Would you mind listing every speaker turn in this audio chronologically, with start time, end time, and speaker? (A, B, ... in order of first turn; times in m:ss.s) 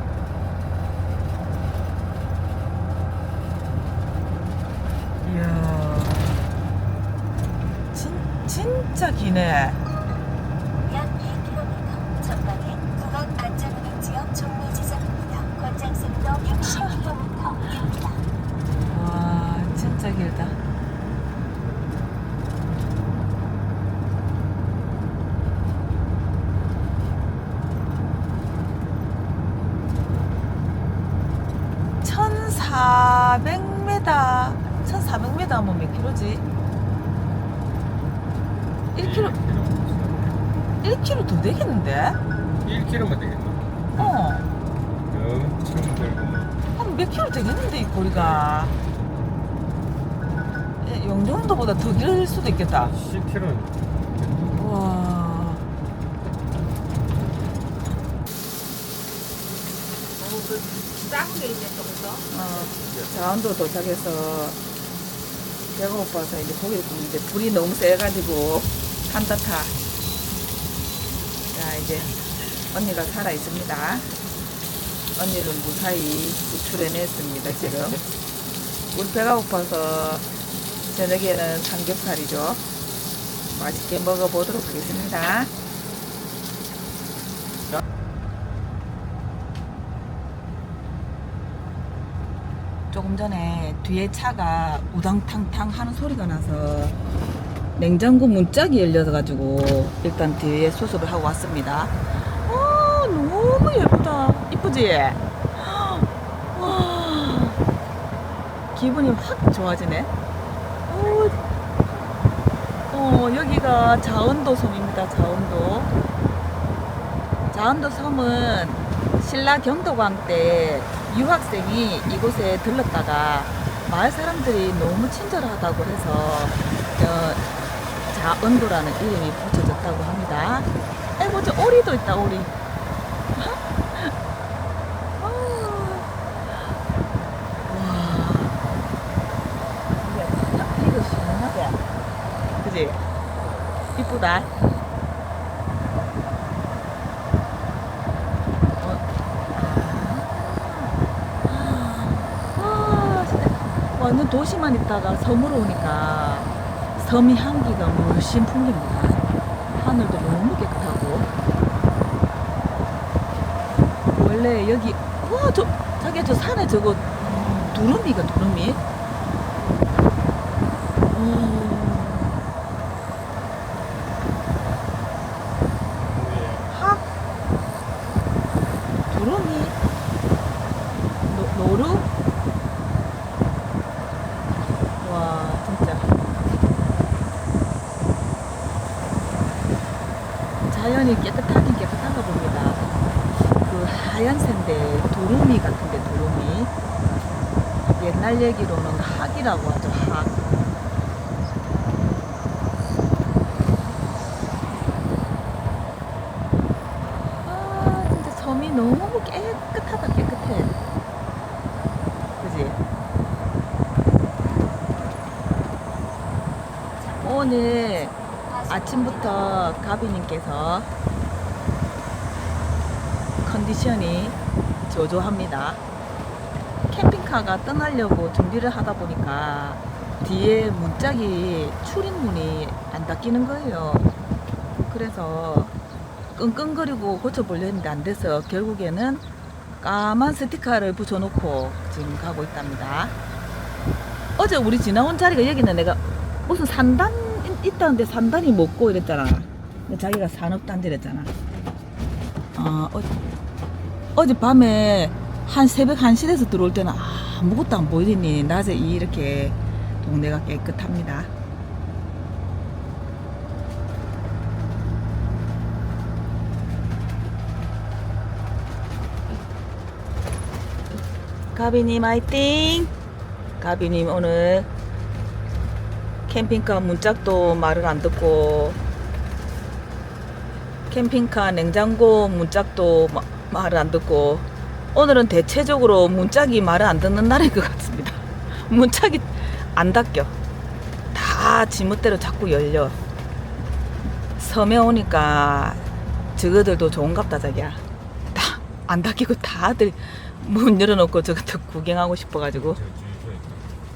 0:05.2-0:06.4 A
0:07.9-0:09.8 A
0:10.8-0:18.2 B
0:16.7-0:17.1 A
0:18.9-0:20.6 A
0:32.0-0:36.4 A
0:38.9-0:39.3 A
0:38.9-0:40.5 C
0:40.8-0:42.2 A
0:42.6-0:44.2 C
0:44.0-0:44.5 A
0:45.1-0:46.6 C
0:46.8-0:48.7 A
0:48.1-0:48.5 C
0:50.8-0:52.9 A
0:52.7-0:54.6 C
0:54.5-0:55.6 A
1:00.2-1:02.2 D
1:02.3-1:04.6 A
1:02.6-1:03.1 C
1:05.7-1:09.7 A
1:11.5-1:12.1 A
1:12.7-1:14.1 A
1:15.2-1:18.0 A
1:18.9-1:20.3 A
1:20.9-1:22.6 A
1:23.5-1:25.5 A
1:32.9-1:37.0 A
1:37.8-1:47.6 A
1:48.7-1:50.1 A
1:50.9-1:51.4 A
1:52.9-1:55.9 A
1:57.5-2:07.4 A
2:08.1-2:12.5 A
2:13.3-2:14.1 A
2:15.2-2:16.6 A
2:17.6-2:18.6 A
2:20.0-2:21.8 A
2:22.6-2:23.0 A
2:24.0-2:24.5 A
2:28.8-2:41.3 A
2:44.1-2:48.8 A
2:51.1-2:52.4 A
2:56.0-2:56.7 C
2:56.7-2:57.0 A
2:59.1-2:59.8 A
3:01.3-3:02.1 A
3:05.0-3:06.0 A
3:10.7-3:12.8 A
3:13.6-3:16.7 A
3:18.0-3:20.4 A
3:27.4-3:30.7 A
3:32.4-3:32.8 A
3:37.0-3:39.6 B
3:37.2-3:38.2 A
3:38.7-3:40.9 A
3:43.4-3:45.8 A
3:46.9-3:54.1 A
3:54.9-3:55.7 A
3:56.4-3:59.2 A
3:59.8-4:03.1 A
4:04.4-4:11.3 A
4:12.6-4:13.1 A
4:14.2-4:21.3 A
4:31.5-4:32.9 A
4:33.6-4:34.7 A
4:36.3-4:38.8 A
4:40.9-4:50.3 A
4:51.1-4:53.0 A
4:54.4-4:55.8 A
4:56.4-4:57.8 A
4:58.3-5:02.8 A
5:02.5-5:03.8 C